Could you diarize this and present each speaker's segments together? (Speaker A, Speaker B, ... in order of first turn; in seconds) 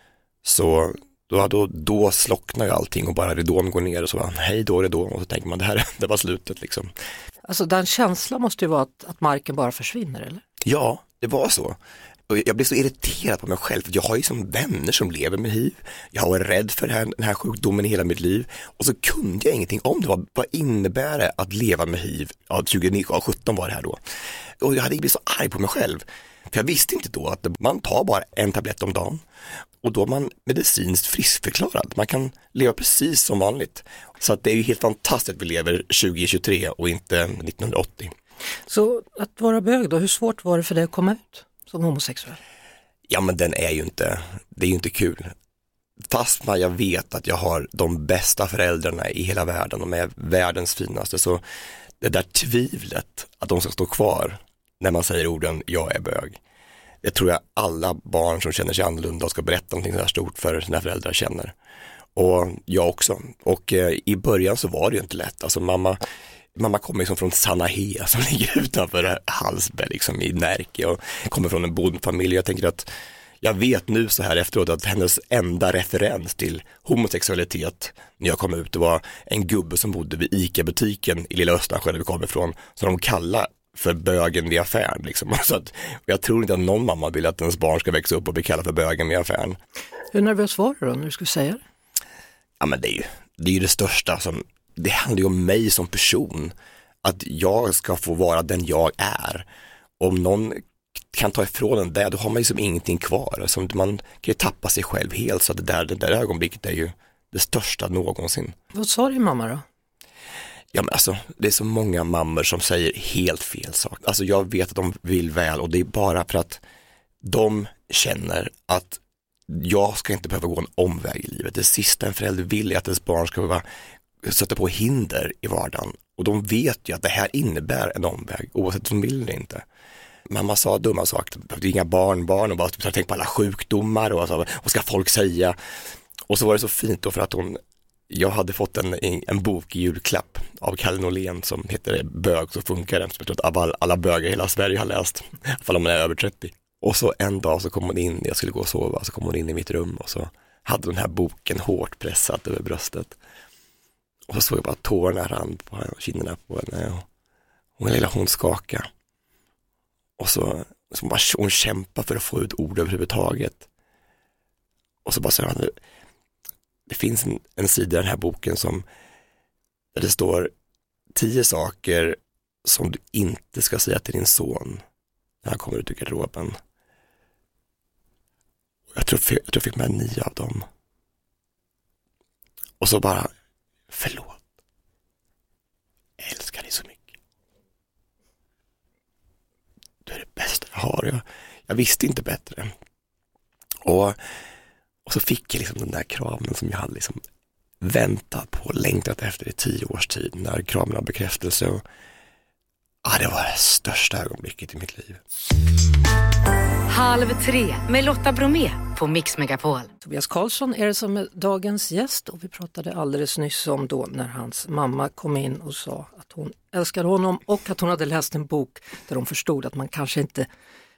Speaker A: 0.4-6.9, 10.6-11.8, 12.3-24.0, 24.6-29.2, 29.8-38.1, 43.1-45.3, 46.1-51.4, 52.0-56.4, 57.0-61.5, 62.2-66.0, 66.6-72.9, 73.4-89.6, 92.6-96.5, 97.0-99.5, 100.0-100.6, 101.1-108.6, 110.7-116.6, 117.2-123.7, 124.2-129.7, 130.3-135.6, 136.3-153.2, 154.3-157.1, 157.8-158.9, 160.2-163.7, 165.1-165.7, 166.9-168.8, 169.9-170.5, 171.2-174.8, 175.4-176.6, 178.9-180.7, 182.8-183.3, 183.9-184.4, 186.2-187.1, 190.1-192.7, 193.8-194.2, 195.1-197.2, 197.8-201.8, 203.0-205.2
Speaker B: 7.5-10.4, 38.7-42.4, 90.1-91.6, 108.7-109.6, 210.0-220.5
Speaker C: 206.9-209.9